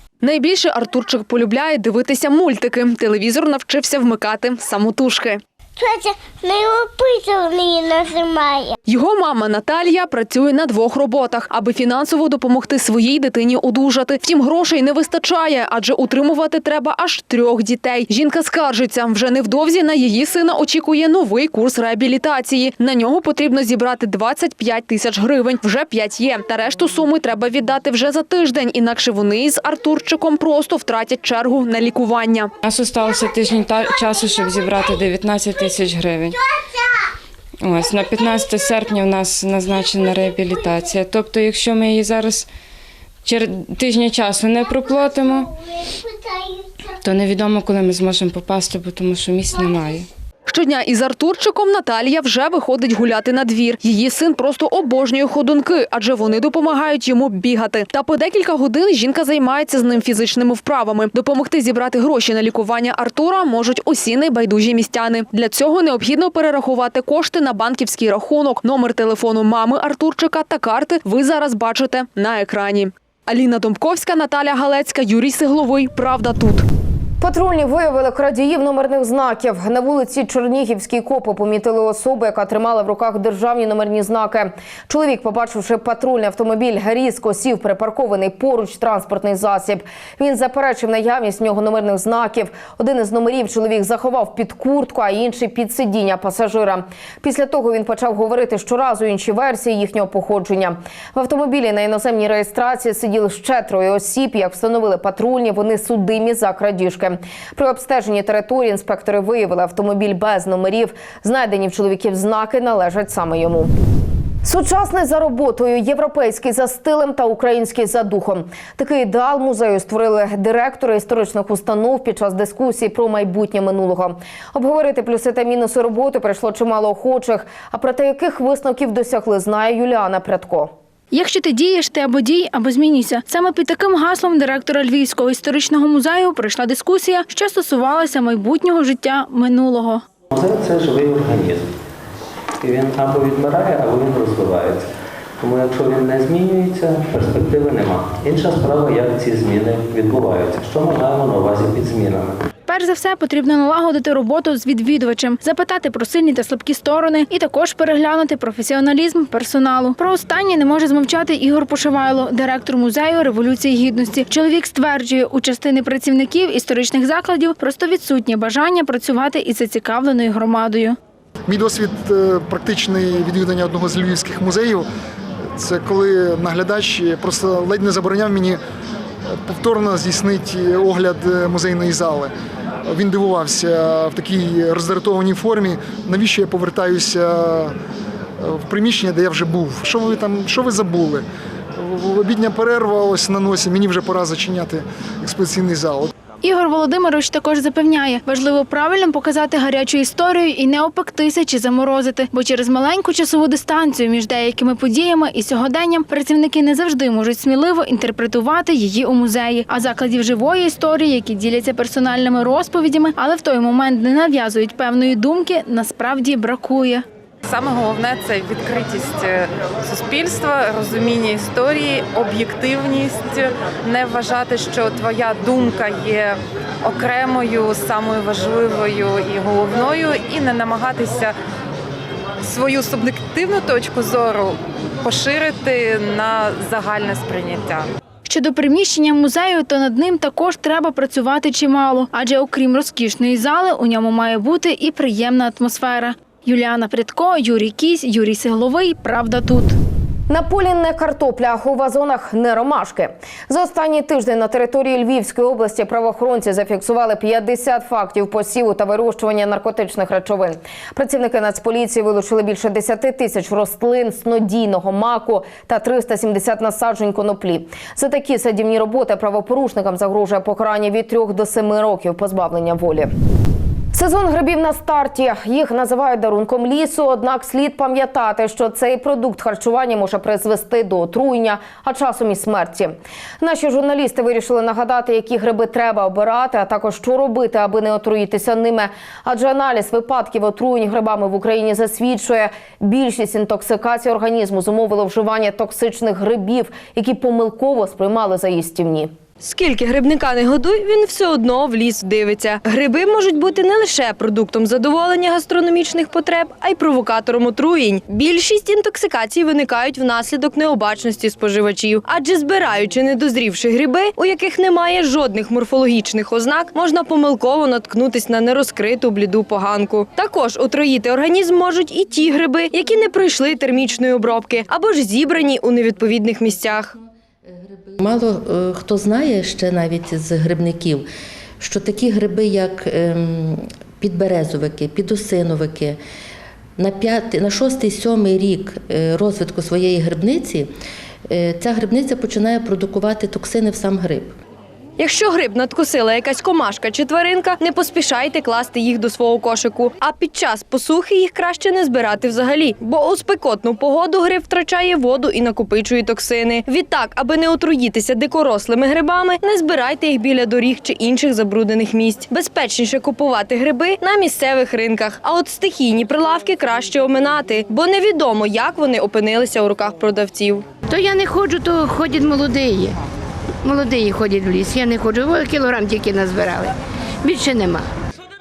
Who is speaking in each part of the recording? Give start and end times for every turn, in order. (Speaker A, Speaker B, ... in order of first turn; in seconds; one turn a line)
Speaker A: 0.2-5.4
Speaker B: 5.8-8.8
Speaker A: 8.9-32.5
Speaker C: 32.6-36.4
Speaker C: 37.6-42.5
Speaker C: 43.2-45.5
Speaker B: 45.6-46.7
Speaker C: 47.0-50.1
Speaker A: 50.5-76.6
Speaker D: 77.2-113.7
Speaker D: 114.4-130.7
Speaker E: 131.1-140.1
Speaker F: 140.3-141.7
Speaker F: 142.6-144.9
Speaker F: 145.4-152.4
Speaker E: 152.7-171.0
Speaker G: 171.5-174.9
Speaker G: 175.5-178.6
Speaker G: 179.3-182.3
Speaker G: 182.8-187.8
Speaker G: 188.4-196.1
Speaker E: 196.4-217.0
Speaker H: 217.4-231.3
Speaker H: 232.4-237.9
Speaker E: 238.2-249.8
Speaker D: 250.3-273.1
Speaker D: 273.9-299.1
Speaker I: 299.4-326.9
Speaker J: 327.4-331.1
Speaker J: 331.6-336.0
Speaker J: 336.8-340.7
Speaker J: 341.3-344.3
Speaker I: 345.0-370.6
Speaker B: 370.9-373.0
Speaker B: 373.6-377.9